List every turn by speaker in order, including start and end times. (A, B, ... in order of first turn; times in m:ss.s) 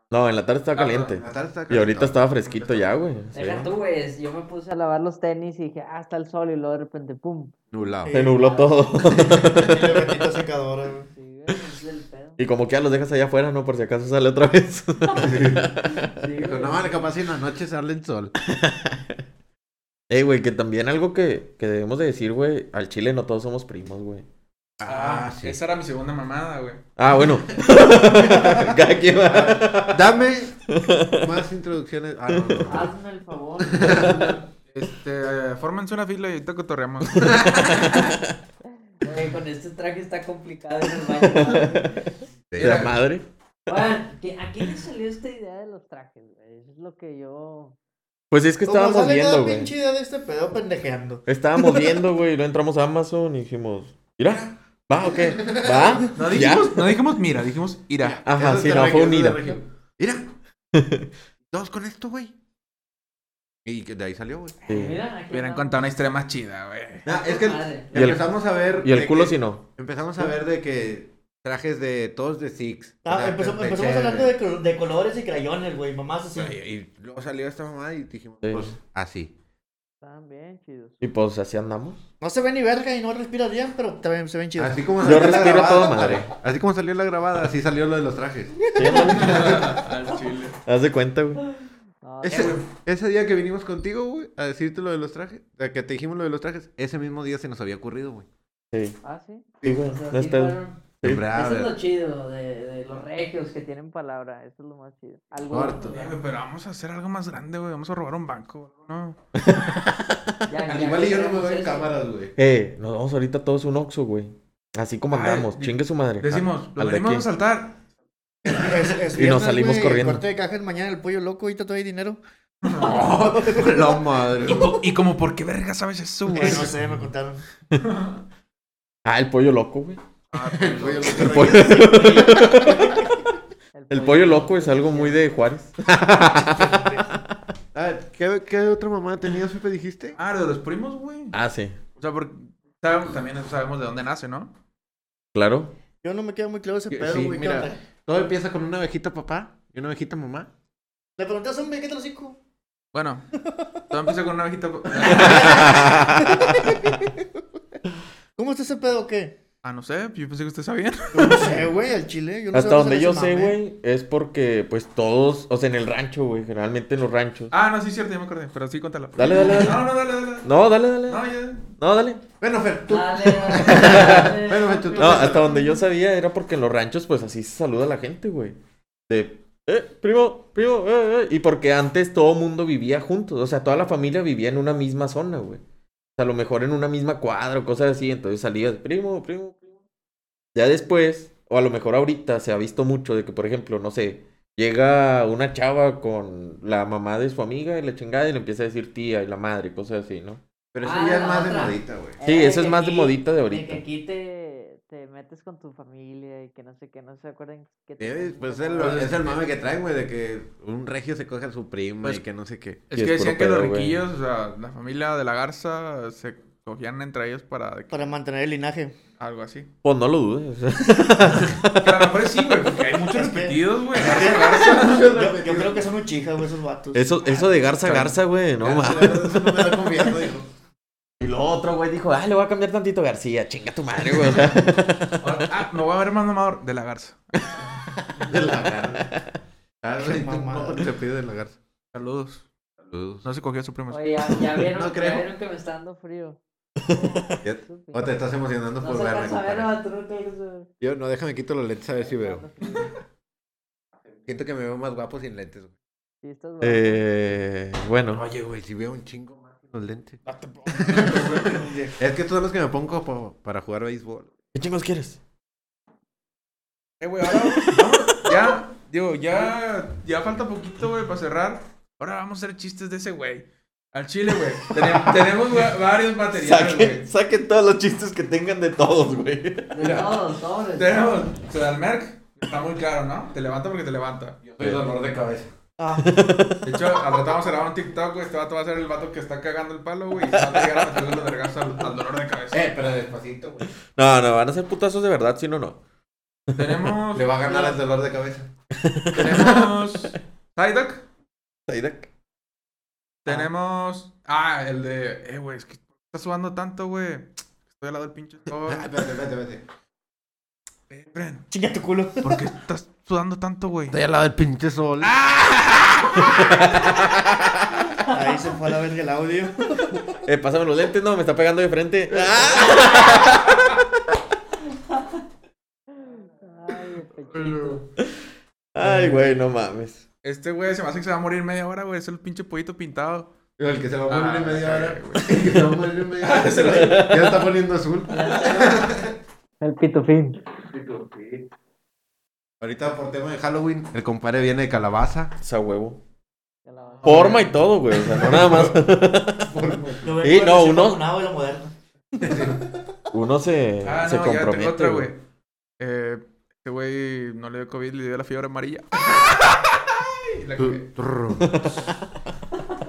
0:00.1-0:03.7 A
0:00.7-0:01.2 B
0:01.2-0:02.2 C
0:02.4-0:02.9 B
0:03.3-0:07.5 D
0:07.7-0:08.1 C
0:08.0-0:08.4 E
0:08.1-0:10.2 A
0:08.2-0:09.4 D
0:09.2-0:11.1 E
0:11.1-0:12.4 D
0:12.4-0:16.1 A
0:15.2-0:15.7 C
0:15.9-0:17.1 D
0:16.3-0:18.3 C
0:18.4-0:19.2 A
0:20.1-0:24.2 A
0:24.8-0:25.6 C
0:24.8-0:26.8 B
0:27.0-0:30.0 A
0:28.3-0:28.6 C
0:29.3-0:30.6 C
0:30.7-0:31.4 A
0:31.1-0:32.9 C
0:32.3-0:32.7 A
0:32.6-0:34.4 D
0:33.6-0:34.4 C
0:34.7-0:37.8 B
0:37.2-0:38.3 A
0:38.9-0:42.0 D
0:41.1-0:43.8 A
0:42.5-0:43.0 C
0:42.6-0:42.9 B
0:43.7-0:47.8 D
0:48.3-0:49.7 A
0:48.6-0:52.0 E
0:51.3-0:56.9 A
0:55.4-0:56.0 C
0:56.1-0:58.2 B
0:58.0-1:00.3 C
0:58.2-0:59.6 A
1:00.7-1:01.1 A
1:01.5-1:02.3 C
1:03.6-1:04.6 C
1:04.7-1:06.0 D
1:04.7-1:05.0 A
1:05.3-1:07.0 B
1:07.0-1:14.3 C
1:07.0-1:08.0 D
1:07.9-1:08.2 A
1:08.8-1:09.7 A
1:13.0-1:16.6 E
1:16.3-1:19.3 C
1:18.4-1:18.7 A
1:20.0-1:21.0 D
1:21.0-1:22.0 A
1:22.2-1:25.6 E
1:24.6-1:28.6 C
1:25.0-1:26.3 A
1:28.6-1:29.8 E
1:28.7-1:29.6 A
1:28.9-1:30.6 B
1:29.3-1:29.6 C
1:30.6-1:31.4 A
1:32.0-1:32.6 D
1:32.2-1:38.3 C
1:32.3-1:32.6 B
1:38.7-1:39.0 A
1:39.0-1:46.1 D
1:39.6-1:41.3 A
1:41.0-1:41.8 C
1:45.5-1:46.0 C
1:45.9-1:49.2 B
1:49.4-1:50.2 A
1:50.5-1:51.9 D
1:50.6-1:52.3 C
1:52.4-1:57.3 A
1:55.1-1:57.8 B
1:58.5-2:02.2 E
1:59.1-2:00.2 A
2:02.6-2:03.1 B
2:02.7-2:04.8 C
2:02.8-2:04.1 E
2:04.4-2:06.8 B
2:06.3-2:07.4 E
2:07.8-2:08.2 B
2:09.0-2:10.0 A
2:10.3-2:11.7 B
2:10.5-2:11.8 C
2:11.0-2:13.1 E
2:11.1-2:13.1 A
2:13.7-2:15.3 D
2:13.9-2:16.7 A
2:16.2-2:17.1 E
2:17.7-2:20.2 C
2:20.2-2:21.4 B
2:21.3-2:21.8 A
2:22.0-2:24.5 B
2:25.3-2:25.7 A
2:26.0-2:27.8 E
2:26.9-2:30.5 C
2:31.2-2:32.4 E
2:32.9-2:33.3 B
2:33.9-2:35.9 B
2:35.0-2:37.1 E
2:35.2-2:36.7 A
2:38.4-2:39.4 E
2:39.6-2:41.6 B
2:41.1-2:43.6 E
2:42.5-2:47.5 A
2:47.5-2:51.7 B
2:49.2-2:52.2 A
2:52.4-2:55.5 C
2:52.9-2:55.5 D
2:53.6-2:54.4 A
2:54.9-2:58.6 A
2:59.1-3:05.6 A
3:06.2-3:09.6 A
3:10.6-3:20.4 A
3:20.7-3:22.2 C
3:20.8-3:29.4 D
3:22.2-3:23.8 A
3:28.0-3:32.8 C
3:32.9-3:38.1 B
3:32.9-3:34.0 A
3:37.9-3:39.0 E
3:39.2-3:39.7 B
3:39.8-3:42.2 A
3:41.8-3:45.0 B
3:43.0-3:47.5 E
3:44.0-3:45.9 C
3:46.9-3:50.1 A
3:47.8-3:50.5 C
3:51.2-3:55.4 A
3:55.2-3:57.5 B
3:58.2-3:59.1 C
3:59.8-4:01.6 C
4:00.0-4:00.9 E
4:01.9-4:02.4 B
4:02.9-4:03.2 C
4:03.2-4:04.1 B
4:03.9-4:06.4 D
4:04.3-4:05.2 C
4:06.9-4:07.2 A
4:07.4-4:09.7 C
4:07.6-4:08.2 D
4:08.8-4:10.7 D
4:10.8-4:12.4 C
4:12.0-4:13.0 D
4:14.2-4:15.7 C
4:16.2-4:17.0 D
4:16.6-4:18.3 A
4:18.1-4:21.3 C
4:20.2-4:21.7 B
4:21.2-4:22.0 E
4:22.0-4:24.3 C
4:24.6-4:25.2 A
4:27.0-4:37.0 B
4:27.4-4:28.0 A
4:36.3-4:40.0 A
4:39.7-4:41.1 D
4:39.8-4:40.2 B
4:40.7-4:44.4 B
4:44.4-4:45.5 C
4:45.8-4:46.2 E
4:46.0-4:46.9 A
4:46.6-4:52.7 B
4:50.3-4:50.9 A
4:52.5-4:53.7 C
4:53.8-4:55.8 A
4:56.6-4:57.8 B
4:57.1-4:58.5 C
4:58.7-4:59.9 A
4:59.1-5:01.0 B
5:01.7-5:02.1 A
5:03.2-5:08.9 B
5:08.6-5:09.6 C
5:10.9-5:11.4 B
5:11.5-5:12.3 E
5:12.2-5:14.0 B
5:13.9-5:15.2 C
5:15.0-5:16.8 B
5:18.1-5:20.0 E
5:20.2-5:23.8 A
5:25.9-5:27.8 D
5:27.3-5:27.8 C
5:28.0-5:30.0 A
5:28.8-5:29.3 E
5:30.2-5:33.3 B
5:33.6-5:39.1 C
5:34.1-5:35.6 B
5:36.2-5:37.5 B
5:36.7-5:37.3 A
5:38.1-5:39.0 D
5:39.6-5:40.5 D
5:40.7-5:41.4 C
5:42.6-5:45.3 C
5:45.4-5:46.0 A
5:46.6-5:47.4 D
5:46.9-5:47.5 B
5:47.0-5:49.5 A
5:47.1-5:47.4 C
5:48.0-5:48.8 C
5:49.4-5:50.2 C
5:50.0-5:52.6 E
5:50.2-5:51.0 A
5:52.2-5:52.6 C
5:53.1-5:55.1 A
5:53.8-5:55.2 B
5:55.8-6:00.9 B
6:00.6-6:01.6 C
6:01.4-6:01.8 A